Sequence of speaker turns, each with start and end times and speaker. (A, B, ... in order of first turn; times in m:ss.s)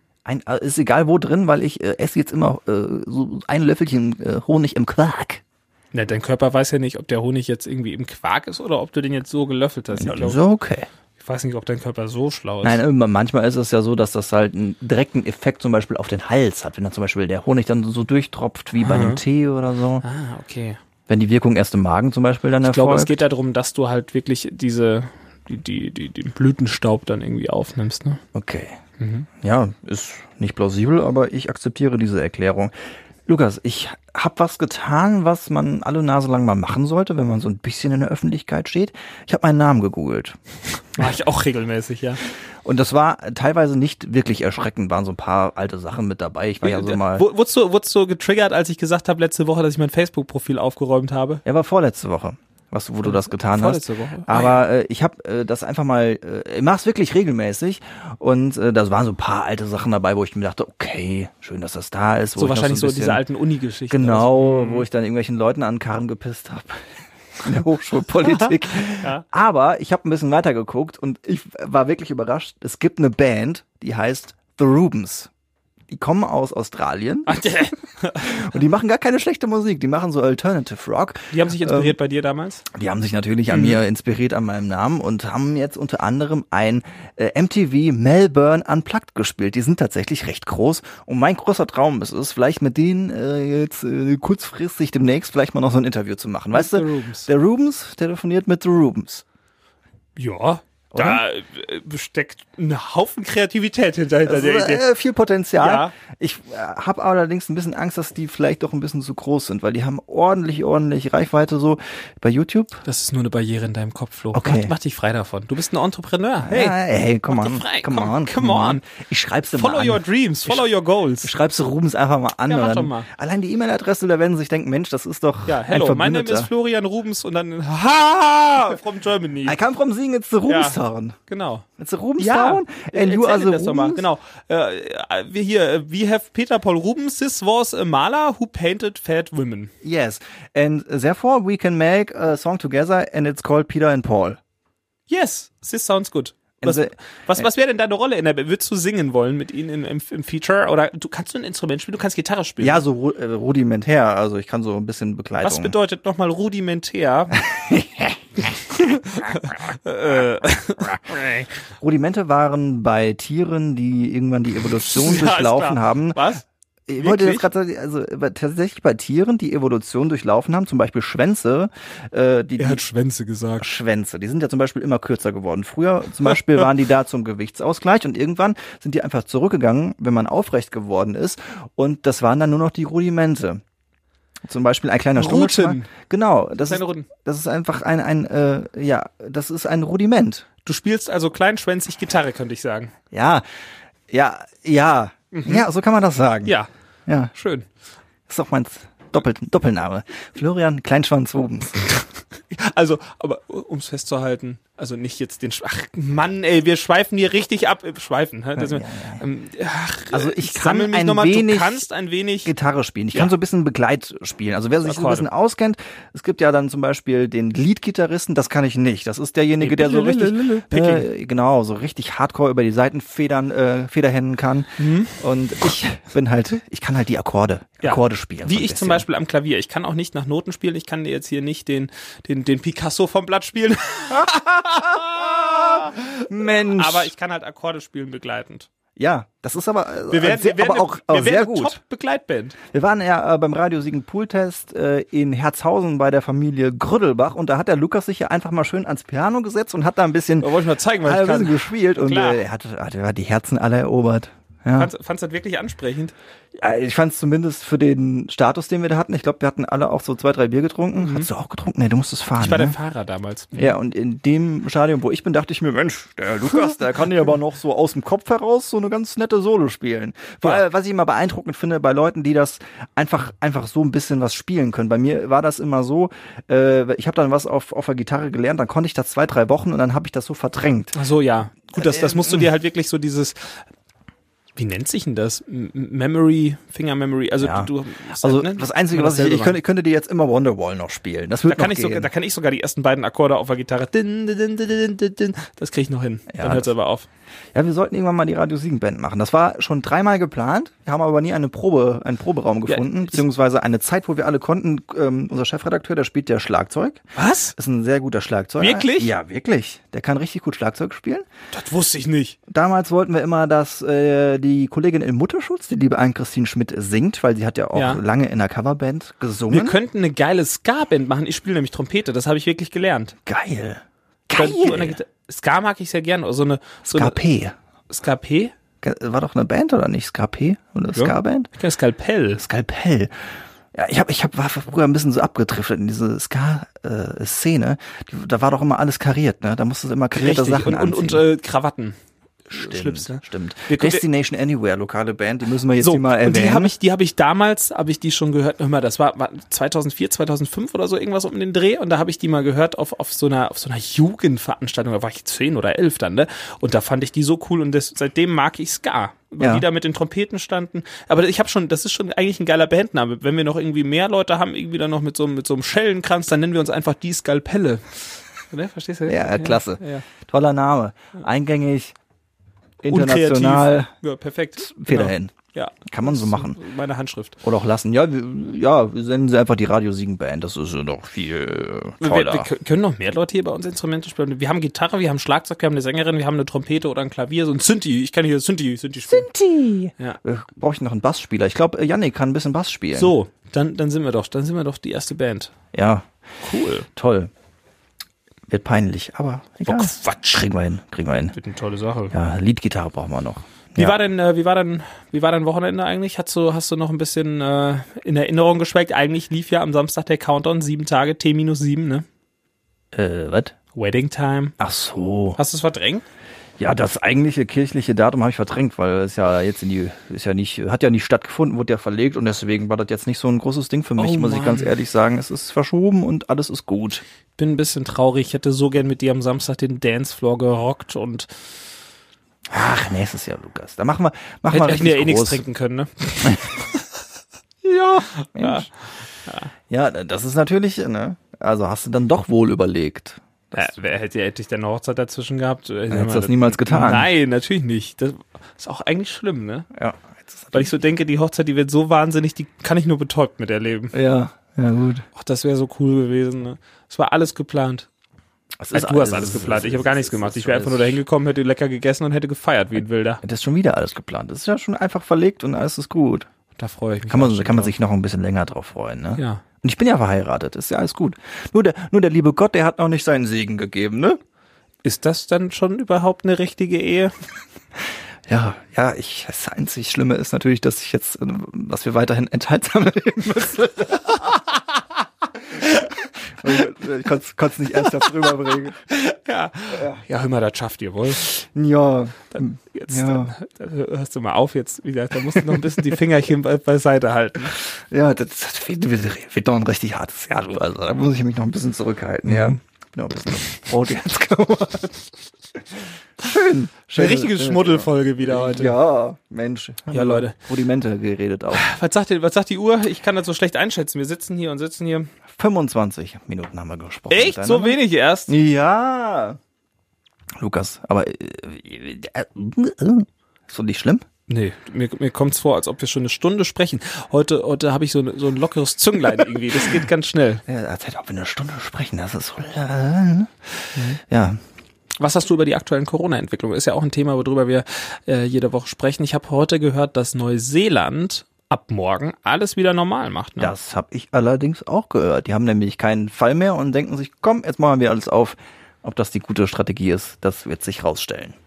0:00.2-0:05.4 A
0:05.9-0:10.4 B
0:09.9-0:10.9 A
0:11.2-0:12.8 B
0:12.6-0:20.0 A
0:18.8-0:19.2 B
0:20.0-0:20.8 B
0:21.1-0:23.2 A
0:22.6-0:28.2 B
0:28.3-0:28.8 A
0:29.0-0:29.3 B
0:29.4-0:32.7 A
0:33.2-0:40.4 A
0:40.9-0:42.2 B
0:42.6-0:47.2 A
0:46.6-0:51.4 B
0:51.4-1:03.2 A
0:53.0-0:54.6 B
1:02.4-1:04.8 B
1:03.9-1:06.9 A
1:07.4-1:15.3 A
1:08.3-1:09.2 B
1:15.9-1:17.4 A
1:17.2-1:18.5 B
1:18.2-1:22.0 A
1:21.3-1:22.6 B
1:22.7-1:39.2 A
1:23.5-1:23.8 B
1:36.5-1:37.3 B
1:40.2-1:44.8 B
1:40.9-1:41.2 A
1:44.2-1:52.8 A
1:45.6-1:45.9 B
1:52.8-1:56.8 B
1:54.3-1:54.7 A
1:56.4-2:00.7 A
1:57.3-1:58.8 B
1:59.5-2:01.3 B
2:01.2-2:06.5 A
2:02.5-2:03.1 B
2:05.5-2:09.6 B
2:09.4-2:11.2 A
2:10.5-2:11.6 B
2:11.8-2:14.0 A
2:12.2-2:19.7 B
2:19.8-2:24.4 A
2:25.1-2:32.8 B
2:26.6-2:27.4 A
2:32.6-2:35.7 A
2:35.4-2:37.4 B
2:37.4-2:38.5 A
2:38.7-2:41.5 B
2:41.8-2:46.3 A
2:44.8-2:46.4 B
2:46.9-2:52.8 A
2:47.0-2:47.5 B
2:52.6-2:53.7 B
2:53.6-3:03.6 A
3:04.4-3:10.4 A
3:05.2-3:05.9 B
3:06.6-3:07.1 B
3:10.6-3:12.9 B
3:13.1-3:13.4 A
3:14.1-3:16.5 A
3:15.3-3:15.6 B
3:17.3-3:17.7 B
3:18.3-3:21.9 A
3:22.5-3:32.5 B
3:28.6-3:29.2 A
3:30.1-3:31.8 A
3:32.4-3:49.0 A
3:34.8-3:35.3 B
3:39.6-3:41.1 B
3:44.8-3:45.2 B
3:47.8-3:56.0 B
3:55.0-3:57.1 A
3:56.7-3:58.7 B
3:59.0-4:01.8 A
4:00.1-4:02.6 B
4:02.7-4:10.5 A
4:10.4-4:12.4 B
4:11.0-4:14.9 A
4:14.7-4:16.1 B
4:16.6-4:22.8 A
4:21.0-4:21.3 B
4:22.4-4:23.7 B
4:23.5-4:40.9 A
4:40.9-4:43.6 B
4:41.7-4:42.5 A
4:44.6-4:49.6 B
4:47.4-4:52.1 A
4:51.4-4:57.1 B
4:56.3-4:56.7 A
4:57.5-5:07.0 A
5:02.7-5:03.2 B
5:07.2-5:07.5 B
5:07.5-5:11.3 A
5:08.6-5:09.1 B
5:11.5-5:12.4 B
5:12.5-5:19.8 A
5:17.7-5:18.0 B
5:19.5-5:23.1 B
5:23.2-5:25.0 A
5:24.3-5:27.2 B
5:26.9-5:27.6 A
5:27.9-5:28.5 B
5:28.8-5:31.5 A
5:30.9-5:32.4 B
5:32.4-5:41.2 A
5:40.1-5:42.0 B
5:42.5-5:44.0 B
5:42.5-5:46.7 A
5:45.8-6:10.0 B
5:59.4-5:59.6 A
6:09.1-6:11.9 A
6:12.8-6:17.4 B
6:12.8-6:13.9 A
6:14.6-6:15.3 A
6:15.8-6:16.6 A
6:17.4-6:22.5 A
6:22.0-6:29.3 B
6:29.1-6:33.1 A
6:32.9-6:35.5 B
6:35.7-6:36.1 A
6:36.4-6:36.9 B
6:36.9-6:37.3 A
6:38.5-6:41.3 A
6:39.6-6:40.4 B
6:41.3-6:42.1 B
6:42.1-6:44.0 A
6:43.8-6:52.0 B
6:52.9-6:53.5 A
6:53.7-6:54.5 B
6:54.6-6:55.4 A
6:55.4-6:56.0 B
6:56.6-7:07.0 A
7:04.0-7:04.7 B
7:07.4-7:11.3 B
7:12.5-7:15.4 A
7:14.5-7:16.8 B
7:17.6-7:18.7 A
7:18.2-7:18.7 B
7:19.2-7:19.5 B
7:19.7-7:23.7 A
7:23.5-7:29.7 B
7:25.9-7:27.1 A
7:29.7-7:30.7 A
7:30.5-7:33.9 B
7:33.9-7:35.0 A
7:35.1-7:37.9 B
7:38.6-7:41.0 A
7:38.7-7:43.2 B
7:43.2-7:46.3 A
7:46.6-7:47.7 B
7:47.1-7:54.2 A
7:49.2-7:49.4 B
7:54.8-7:57.1 B
7:58.3-8:04.4 A
8:06.4-8:08.8 A
8:08.9-8:11.3 B
8:09.7-8:10.0 A
8:11.2-8:13.3 A
8:12.3-8:17.6 B
8:15.3-8:15.7 A
8:17.8-8:25.1 A
8:22.2-8:22.6 B
8:26.2-8:31.6 A
8:26.9-8:28.7 B
8:29.9-8:30.4 B
8:31.5-8:35.1 B
8:35.3-8:39.4 A
8:37.1-8:38.3 B
8:40.4-8:44.0 A
8:44.3-8:50.4 B
8:50.4-8:54.4 A
8:53.7-8:54.0 B
8:55.0-9:03.5 B
9:03.4-9:11.4 A